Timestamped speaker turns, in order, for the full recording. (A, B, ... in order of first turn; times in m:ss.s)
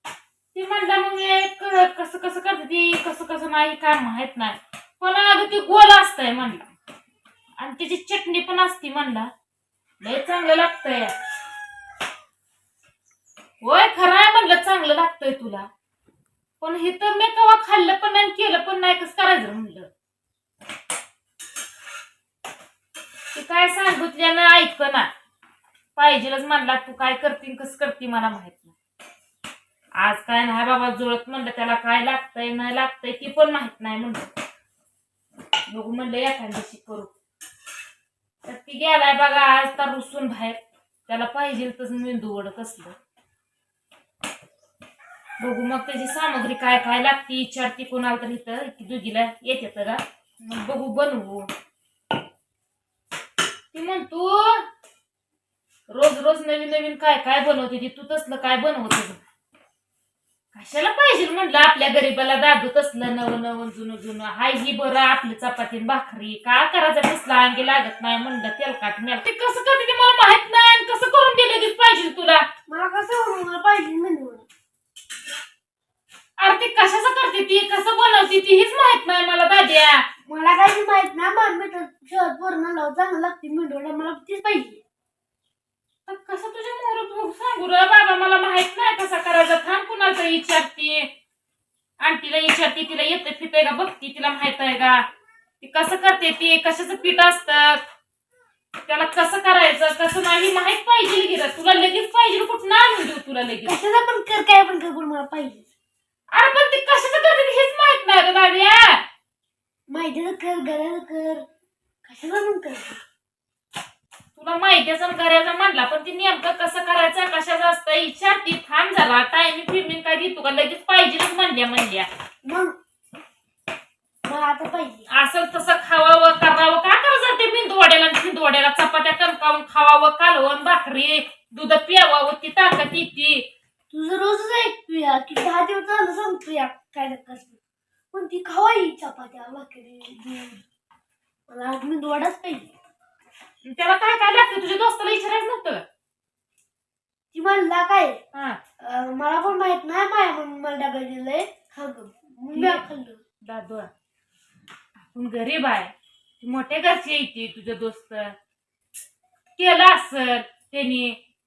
0:00.5-0:06.6 A
0:07.6-0:09.3 A
0:10.0-0:11.1 A
0:13.6-0:15.7 A
0:16.6-0:19.9 A
0:23.3-0:25.1 A
0:26.0-0:28.8 A
0:30.0-0:34.3 A
0:35.7-0:37.1 A
0:38.4-0:43.0 A
0:45.4-0:51.5 A
0:53.7-0:54.6 A
0:55.9-0:59.2 A
1:00.5-1:12.5 A
1:12.7-1:14.5 B
1:16.4-1:20.1 A
1:20.3-1:24.8 B
1:26.1-1:31.1 A
1:32.0-1:35.0 A
1:35.6-1:37.8 A
1:38.9-1:43.8 A
1:43.6-1:45.7 B
1:46.3-1:49.0 A
1:49.9-1:51.4 B
1:52.0-1:53.0 B
1:54.4-2:02.1 A
2:02.4-2:02.8 B
2:04.2-2:05.1 B
2:05.1-2:13.5 A
2:13.9-2:17.6 B
2:18.1-2:20.6 B
2:21.5-2:22.7 B
2:23.6-2:25.8 A
2:27.3-2:28.2 B
2:28.3-2:28.6 A
2:28.8-2:33.2 B
2:32.5-2:32.8 A
2:33.4-2:33.9 A
2:35.0-2:38.4 A
2:39.6-2:41.2 A